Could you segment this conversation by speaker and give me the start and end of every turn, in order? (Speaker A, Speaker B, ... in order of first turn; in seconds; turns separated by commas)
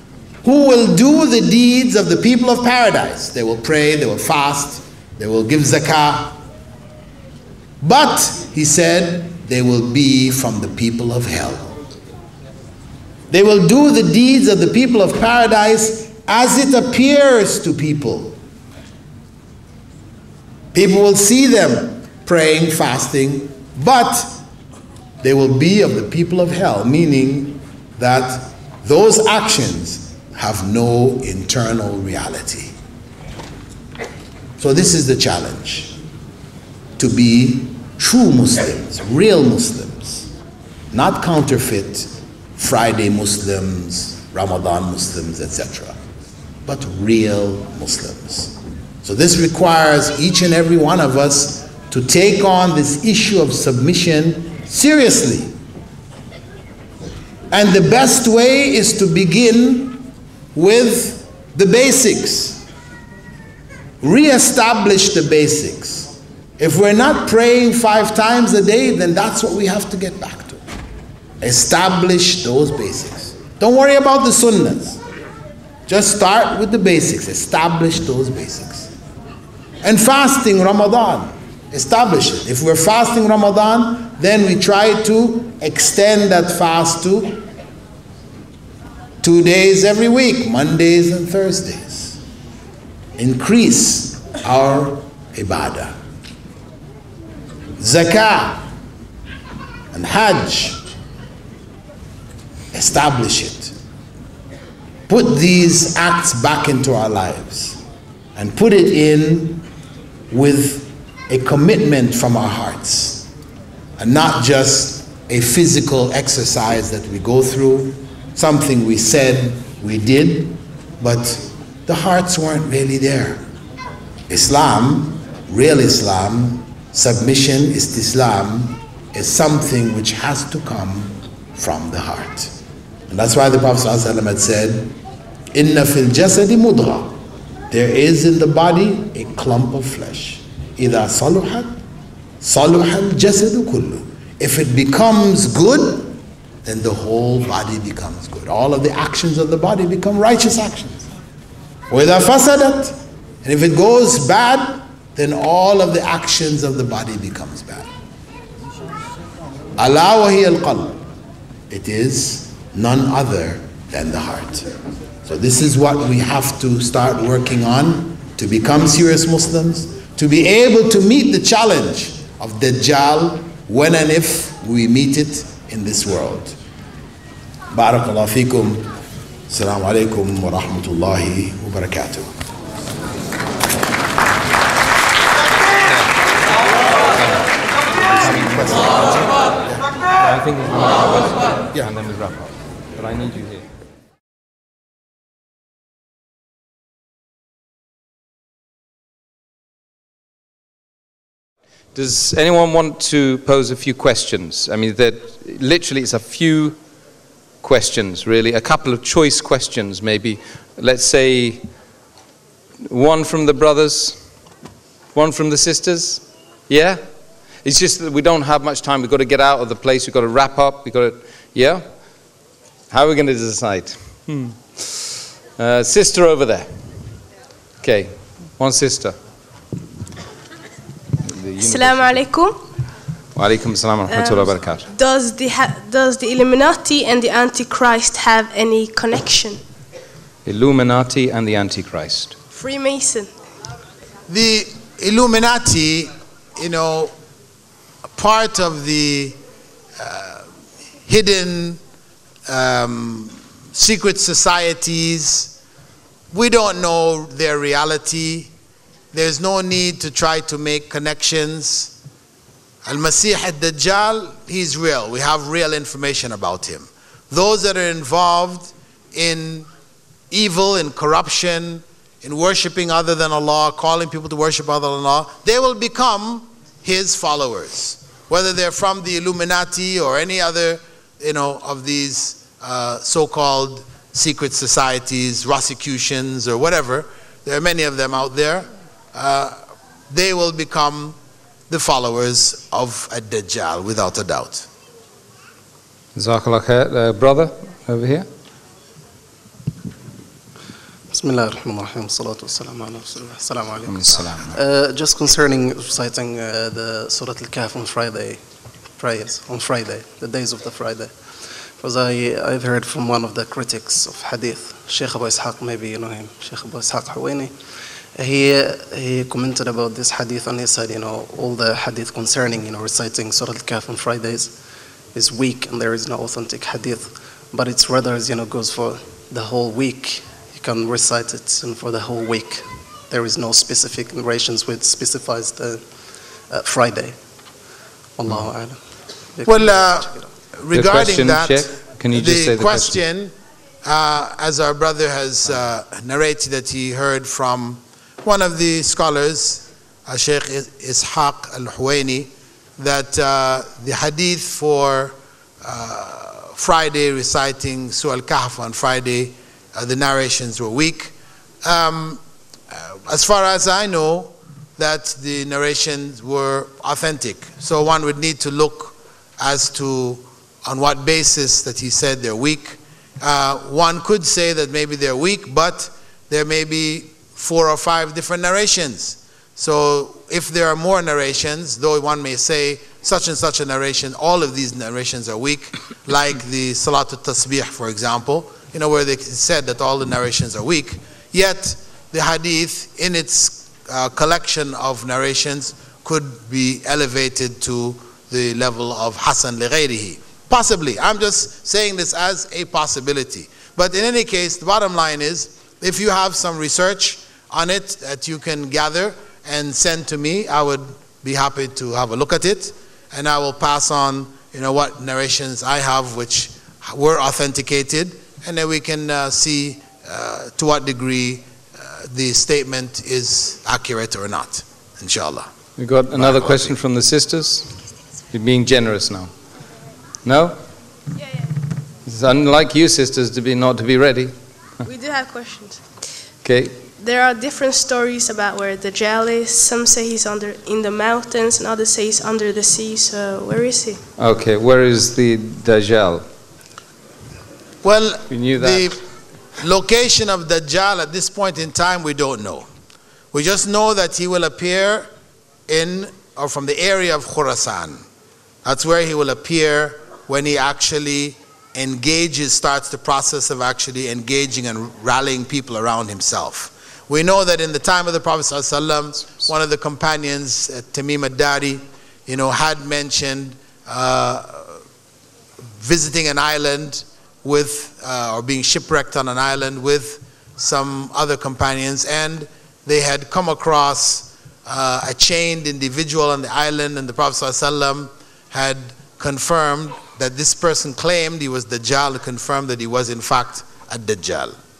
Speaker A: 0.4-6.3, Speaker A: 7.8-11.8, Speaker A: 13.3-18.4, Speaker A: 20.7-24.3, Speaker A: 25.2-32.7, Speaker A: 34.6-36.0, Speaker A: 37.0-40.3, Speaker A: 40.9-46.0, Speaker A: 46.6-55.5, Speaker A: 57.5-62.6, Speaker A: 64.0-70.6, Speaker A: 71.4-75.0, Speaker A: 75.9-78.9, Speaker A: 79.8-87.4, Speaker A: 89.2-92.2, Speaker A: 93.2-95.9, Speaker A: 97.8-98.6, Speaker A: 99.9-100.8, Speaker A: 102.7-103.7, Speaker A: 105.1-107.8, Speaker A: 108.3-109.6, Speaker A: 110.3-113.3, Speaker A: 114.0-123.4, Speaker A: 124.3-132.5, Speaker A: 133.1-134.9, Speaker A: 135.5-137.1, Speaker A: 137.7-141.7, Speaker A: 142.4-151.1, Speaker A: 151.9-157.9, Speaker A: 159.8-161.0, Speaker A: 161.7-164.7, Speaker A: 165.2-176.5, Speaker A: 177.7-178.9, Speaker A: 179.5-182.3, Speaker B: 187.1-187.5, Speaker B: 188.1-189.1, Speaker A: 188.2-189.7, Speaker B: 190.2-193.7, Speaker B: 201.9-206.8, Speaker B: 207.6-211.7, Speaker B: 212.8-214.2, Speaker B: 215.1-217.0, Speaker B: 217.6-221.9, Speaker B: 222.9-226.7, Speaker B: 227.8-229.2, Speaker B: 231.2-232.2, Speaker C: 231.6-232.6, Speaker B: 233.3-234.9, Speaker C: 234.1-239.6, Speaker B: 240.4-242.3, Speaker C: 242.5-243.3, Speaker A: 244.3-247.1, Speaker A: 248.2-249.4, Speaker A: 250.0-250.5, Speaker A: 251.1-251.8, Speaker A: 252.4-255.5, Speaker A: 256.3-258.5, Speaker A: 259.1-261.9, Speaker A: 262.8-269.7, Speaker A: 270.3-289.6, Speaker A: 290.1-291.1, Speaker A: 291.7-294.7, Speaker B: 296.1-298.3, Speaker D: 301.1-317.6, Speaker B: 303.9-304.6, Speaker D: 318.1-324.6, Speaker D: 325.1-337.2, Speaker D: 338.2-340.3, Speaker A: 339.4-425.5, Speaker B: 340.7-342.9, Speaker B: 425.8-427.7, Speaker A: 426.1-426.8, Speaker B: 428.3-429.3, Speaker B: 430.2-430.6, Speaker B: 432.0-434.3, Speaker C: 434.8-435.8, Speaker B: 436.4-436.7, Speaker C: 437.0-444.0, Speaker B: 444.2-446.2, Speaker A: 447.8-449.0, Speaker B: 448.3-449.0, Speaker A: 449.6-452.7, Speaker A: 453.3-455.1, Speaker A: 455.7-458.0, Speaker A: 458.6-474.8, Speaker A: 475.8-494.6